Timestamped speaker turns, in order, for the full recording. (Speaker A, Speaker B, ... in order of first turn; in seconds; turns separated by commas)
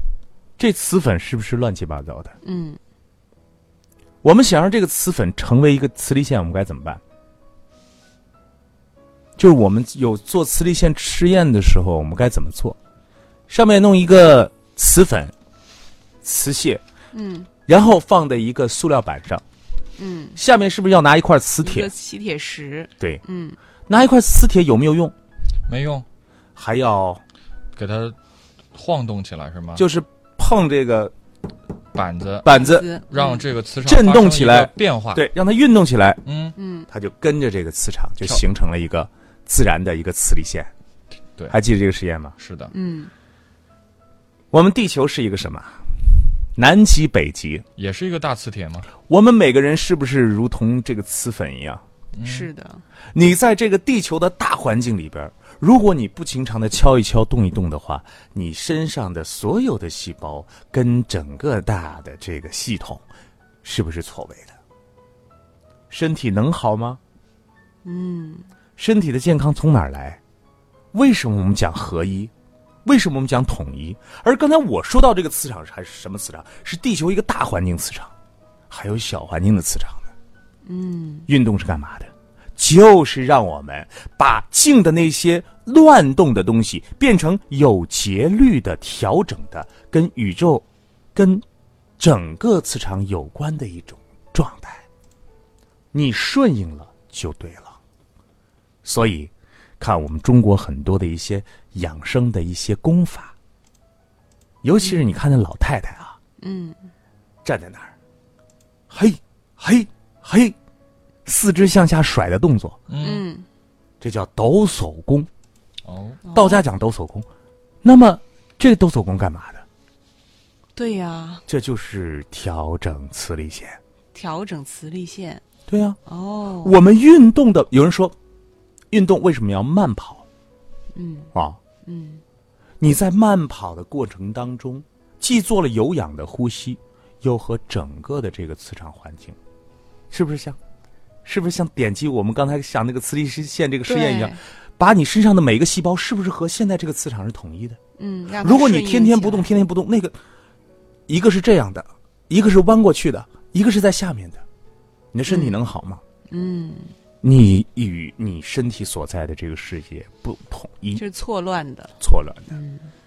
Speaker A: 0.6-2.4, Speaker B: 2.4-2.8, Speaker A: 4.2-7.0, Speaker A: 9.4-12.8, Speaker A: 13.5-15.3, Speaker A: 16.2-16.8, Speaker B: 17.1-17.5, Speaker A: 17.6-19.4, Speaker B: 20.0-20.4, Speaker A: 20.4-21.9, Speaker B: 21.6-23.6, Speaker A: 23.9-25.1, Speaker C: 25.7-26.1, Speaker A: 26.6-27.2, Speaker C: 27.7-28.1, Speaker C: 28.7-29.8, Speaker A: 29.8-31.1, Speaker C: 31.9-35.3, Speaker A: 32.4-32.9, Speaker B: 32.5-33.4, Speaker A: 33.8-36.2, Speaker C: 36.2-36.5, Speaker B: 36.5-36.9, Speaker A: 36.9-40.7, Speaker A: 41.5-42.4, Speaker C: 42.4-42.7, Speaker B: 42.7-43.1, Speaker A: 44.5-47.6, Speaker C: 47.8-48.9, Speaker A: 49.0-51.8, Speaker C: 52.2-52.5, Speaker B: 52.2-52.8, Speaker A: 53.1-63.0, Speaker A: 63.6-64.5, Speaker A: 65.9-67.0, Speaker B: 67.8-68.5, Speaker A: 68.8-70.2, Speaker A: 70.9-72.3, Speaker A: 72.8-78.1, Speaker A: 78.7-80.1, Speaker B: 80.6-81.3, Speaker A: 81.3-91.4, Speaker A: 92.0-94.8, Speaker A: 95.9-97.8, Speaker A: 98.8-103.3, Speaker A: 104.6-106.2, Speaker B: 106.4-106.9, Speaker A: 107.4-107.9, Speaker A: 108.9-110.5, Speaker A: 111.2-112.8, Speaker C: 112.9-113.2, Speaker B: 113.0-113.5, Speaker A: 114.0-115.3, Speaker C: 115.8-116.2, Speaker B: 116.2-116.6, Speaker A: 116.3-117.3, Speaker A: 117.8-119.6, Speaker B: 120.8-121.4, Speaker A: 121.5-123.8, Speaker B: 124.1-125.4, Speaker A: 125.7-126.0, Speaker B: 126.0-126.8, Speaker A: 126.6-128.2, Speaker A: 128.9-130.2, Speaker B: 130.9-131.3, Speaker A: 131.3-131.6, Speaker B: 131.8-132.2, Speaker A: 132.8-139.4, Speaker A: 140.1-140.6, Speaker A: 141.2-147.8, Speaker B: 143.8-144.4, Speaker B: 148.0-149.5, Speaker A: 148.4-150.2, Speaker A: 151.1-154.4, Speaker A: 155.1-156.0, Speaker B: 155.3-155.6, Speaker B: 156.3-156.9, Speaker A: 157.2-161.0, Speaker B: 160.9-161.9, Speaker A: 162.0-162.5, Speaker B: 162.5-162.9